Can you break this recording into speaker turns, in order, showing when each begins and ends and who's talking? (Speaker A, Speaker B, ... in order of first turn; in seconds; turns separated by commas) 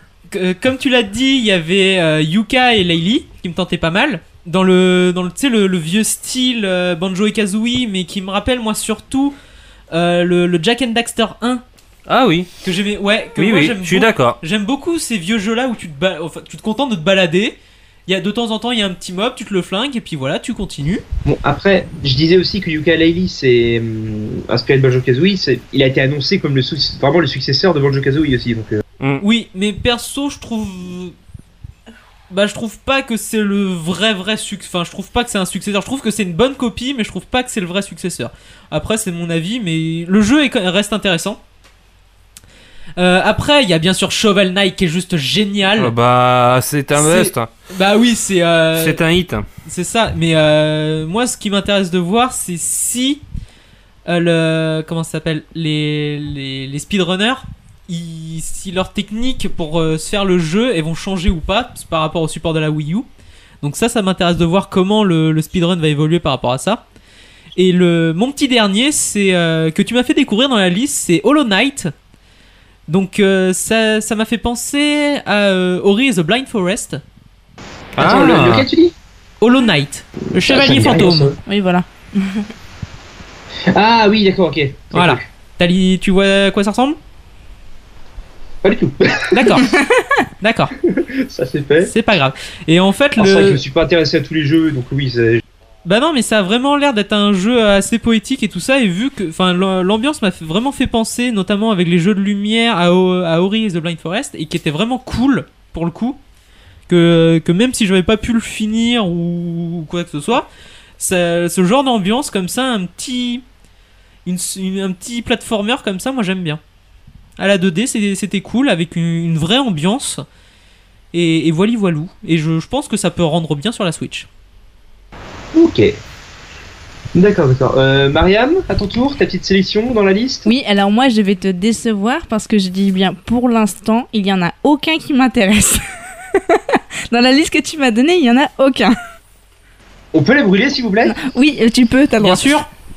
Speaker A: 0.3-9.3, Speaker A: 9.9-11.6, Speaker B: 12.1-12.5, Speaker A: 12.6-17.6, Speaker B: 13.4-14.4, Speaker A: 18.1-21.0, Speaker C: 21.2-28.8, Speaker B: 29.0-29.2, Speaker A: 29.2-31.1, Speaker A: 32.3-41.4, Speaker A: 43.0-45.9, Speaker B: 45.8-47.5, Speaker A: 46.9-49.0, Speaker B: 48.8-49.5, Speaker A: 49.6-53.2, Speaker A: 54.1-63.1, Speaker A: 63.6-66.8, Speaker A: 67.6-71.9, Speaker A: 72.9-77.0, Speaker B: 78.0-78.7, Speaker C: 78.0-78.9, Speaker A: 79.4-81.3, Speaker C: 80.4-81.4, Speaker D: 81.5-82.5, Speaker C: 83.7-85.2, Speaker A: 84.9-87.0, Speaker C: 88.6-89.5, Speaker A: 89.3-89.7, Speaker A: 90.4-90.7, Speaker C: 90.8-91.9, Speaker A: 91.8-93.6, Speaker C: 93.2-95.4, Speaker A: 95.8-106.2, Speaker A: 106.9-110.5, Speaker A: 111.0-113.4, Speaker A: 114.2-116.6, Speaker A: 117.4-120.2, Speaker A: 121.1-124.3, Speaker C: 125.5-126.0, Speaker C: 127.2-130.5, Speaker D: 130.5-135.8, Speaker D: 137.1-138.9, Speaker C: 140.1-141.2, Speaker D: 141.1-142.6, Speaker A: 142.2-142.7